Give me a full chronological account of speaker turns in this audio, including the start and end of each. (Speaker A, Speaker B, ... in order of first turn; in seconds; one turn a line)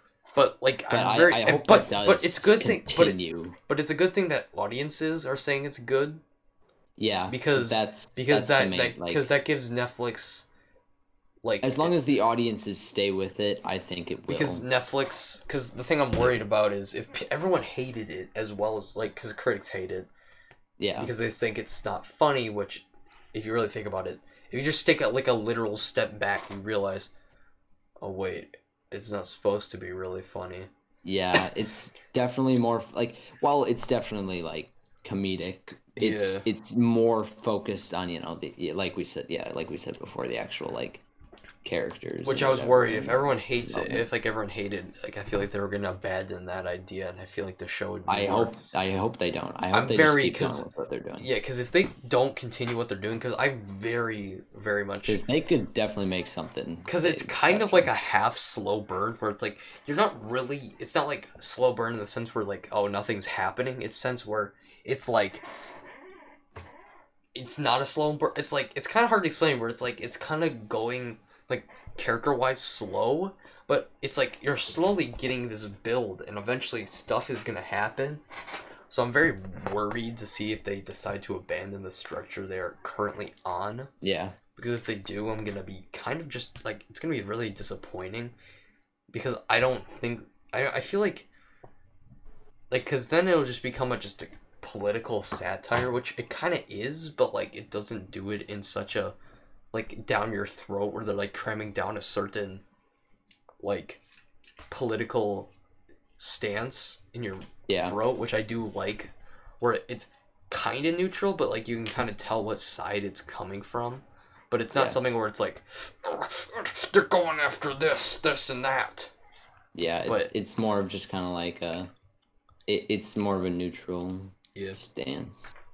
Speaker A: 0.3-3.2
Speaker B: 0.9-3.5
Speaker A: 3.7-6.2
Speaker B: 7.0-9.3
Speaker A: 7.3-10.4
Speaker A: 11.4-11.9
Speaker B: 11.6-14.7
Speaker A: 14.3-20.1
Speaker B: 20.8-21.1
Speaker A: 21.0-27.1
Speaker A: 28.0-30.7
Speaker B: 31.0-41.0
Speaker A: 36.0-36.4
Speaker B: 41.6-44.1
Speaker A: 42.2-48.6
Speaker B: 48.1-51.3
Speaker A: 49.7-50.6
Speaker A: 51.2-55.2
Speaker B: 55.0-57.9
Speaker A: 56.9-65.4
Speaker A: 67.3-78.2
Speaker A: 78.9-83.9
Speaker B: 84.0-84.4
Speaker A: 84.5-88.3
Speaker A: 89.1-91.3
Speaker A: 92.7-99.1
Speaker A: 99.7-102.6
Speaker A: 103.6-104.0
Speaker A: 104.7-105.5
Speaker A: 106.2-119.1
Speaker B: 107.7-108.0
Speaker B: 114.7-115.0
Speaker B: 119.7-121.9
Speaker B: 122.7-125.5